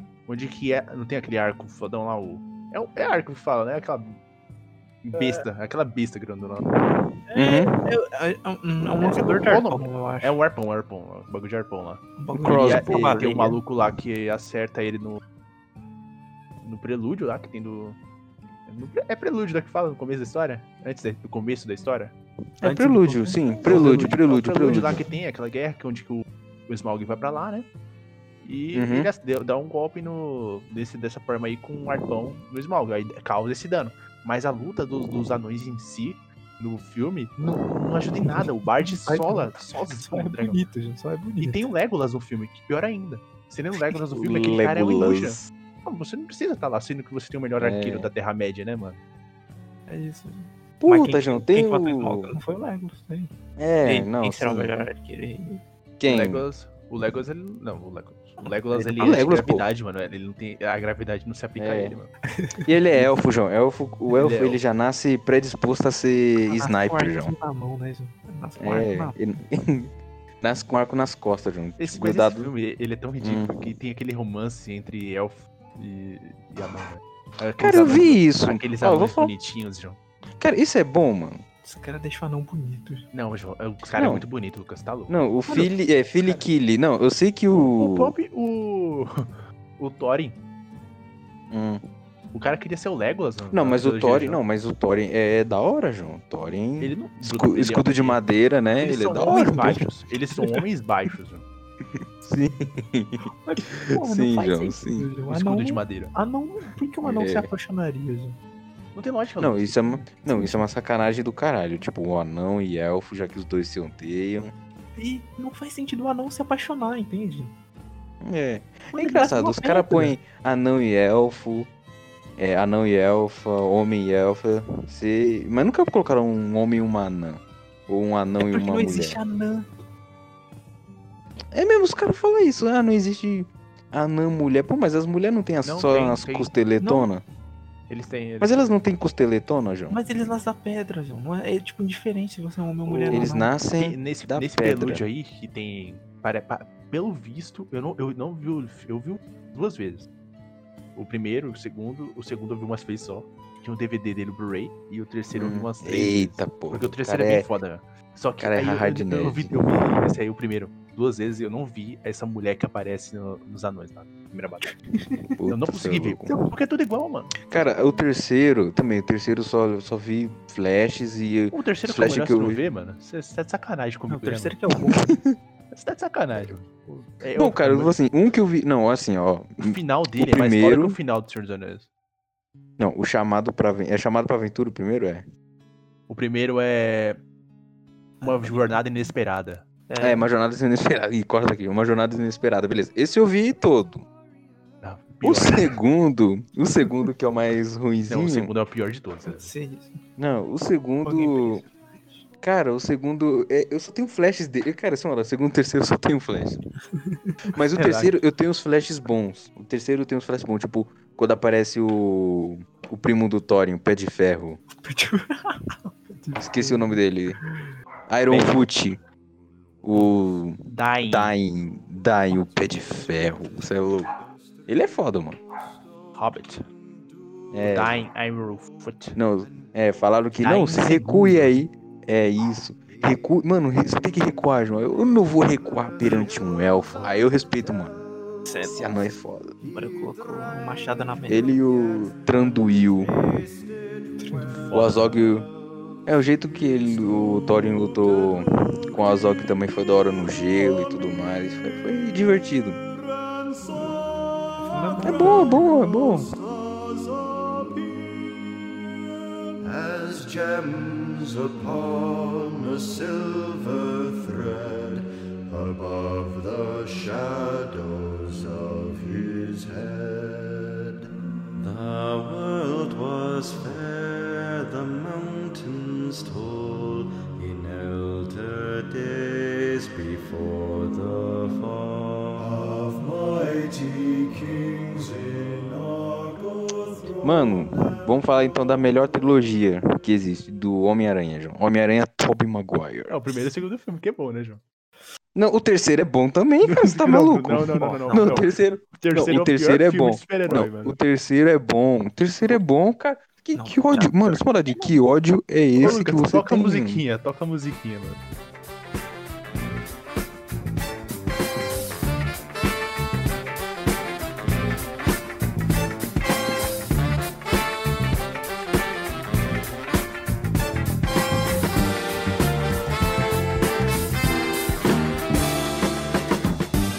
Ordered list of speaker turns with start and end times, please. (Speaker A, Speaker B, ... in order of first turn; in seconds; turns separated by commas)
Speaker A: 0.3-4.2, Speaker A: 5.0-7.0, Speaker B: 5.1-5.4, Speaker B: 7.3-10.4, Speaker C: 7.3-7.8, Speaker A: 9.0-15.2, Speaker B: 12.2-13.6, Speaker C: 12.3-13.3, Speaker A: 16.6-18.0, Speaker A: 18.7-22.1, Speaker C: 22.6-25.0, Speaker B: 22.6-24.2, Speaker A: 23.6-27.7, Speaker A: 28.4-40.6, Speaker C: 28.7-29.1, Speaker B: 37.4-41.6, Speaker A: 41.4-49.0, Speaker C: 44.1-45.5, Speaker C: 47.6-48.1, Speaker B: 49.9-53.3, Speaker C: 50.8-52.3, Speaker C: 53.6-54.7, Speaker B: 53.8-55.6, Speaker C: 56.0-56.4, Speaker A: 56.1-62.1, Speaker B: 58.4-59.2, Speaker C: 58.7-59.6, Speaker C: 61.6-62.0, Speaker B: 62.3-63.1, Speaker C: 62.6-67.3, Speaker A: 64.1-64.6, Speaker B: 66.5-69.2, Speaker C: 68.6-72.5, Speaker A: 71.8-80.0, Speaker C: 73.2-73.6, Speaker C: 77.6-79.3, Speaker C: 80.4-81.4, Speaker B: 81.6-83.0, Speaker A: 83.1-85.3, Speaker C: 83.9-84.2, Speaker C: 85.1-88.1, Speaker A: 86.2-86.5, Speaker A: 87.5-90.4, Speaker C: 91.5-91.8, Speaker A: 92.3-94.4, Speaker C: 93.5-99.9, Speaker A: 96.8-98.2, Speaker A: 98.8-101.5, Speaker B: 99.2-99.6, Speaker C: 102.0-105.1, Speaker B: 103.3-108.4, Speaker A: 105.3-106.1, Speaker C: 107.0-107.5, Speaker A: 109.0-110.0, Speaker C: 109.4-114.5, Speaker B: 110.3-110.6, Speaker B: 115.0-117.5, Speaker C: 118.2-121.7, Speaker B: 118.9-120.2, Speaker C: 122.4-129.2, Speaker B: 128.4-129.7, Speaker C: 131.5-137.2, Speaker A: 135.6-136.5, Speaker B: 136.8-137.1, Speaker A: 137.9-138.7, Speaker C: 138.4-140.0, Speaker B: 139.9-143.5, Speaker C: 142.9-145.0, Speaker A: 143.1-150.1, Speaker A: 150.9-164.8, Speaker C: 155.3-157.5, Speaker C: 158.4-159.6, Speaker B: 164.9-165.2, Speaker C: 165.4-166.4, Speaker A: 165.5-167.4, Speaker C: 167.5-172.6, Speaker A: 171.5-174.6, Speaker B: 174.1-175.2, Speaker C: 174.8-175.4, Speaker A: 175.7-178.0, Speaker C: 177.4-181.0, Speaker A: 179.6-181.9, Speaker C: 182.8-185.2, Speaker A: 186.1-187.2, Speaker B: 188.2-188.8, Speaker A: 188.2-189.6, Speaker B: 189.9-190.3, Speaker C: 190.0-194.0, Speaker A: 194.8-195.8, Speaker C: 195.2-198.5, Speaker A: 198.1-199.5, Speaker B: 199.3-200.0, Speaker C: 200.2-201.6, Speaker B: 201.0-202.2, Speaker C: 202.4-206.6, Speaker B: 206.9-207.4, Speaker C: 207.5-214.6, Speaker A: 207.8-208.1, Speaker B: 214.7-217.7, Speaker C: 216.4-217.4, Speaker C: 218.1-219.0, Speaker A: 218.3-218.6, Speaker C: 219.8-224.2, Speaker A: 220.7-221.3, Speaker C: 224.7-225.4, Speaker A: 226.2-226.6, Speaker C: 227.5-228.0, Speaker A: 227.7-229.2, Speaker C: 229.1-238.0, Speaker A: 230.4-231.6, Speaker B: 238.5-238.9, Speaker C: 238.6-239.5, Speaker B: 239.6-241.5, Speaker C: 241.3-243.2, Speaker D: 243.2-244.7, Speaker B: 244.2-244.8, Speaker C: 244.7-245.5, Speaker C: 246.1-252.8, Speaker D: 253.5-258.2, Speaker B: 254.6-255.6, Speaker C: 255.0-256.3, Speaker D: 259.6-270.8, Speaker D: 271.6-287.8, Speaker C: 287.2-293.1, Speaker A: 293.1-294.6, Speaker C: 295.4-307.0, Speaker A: 296.6-301.0, Speaker B: 297.7-298.6, Speaker B: 303.5-305.0, Speaker A: 305.8-308.2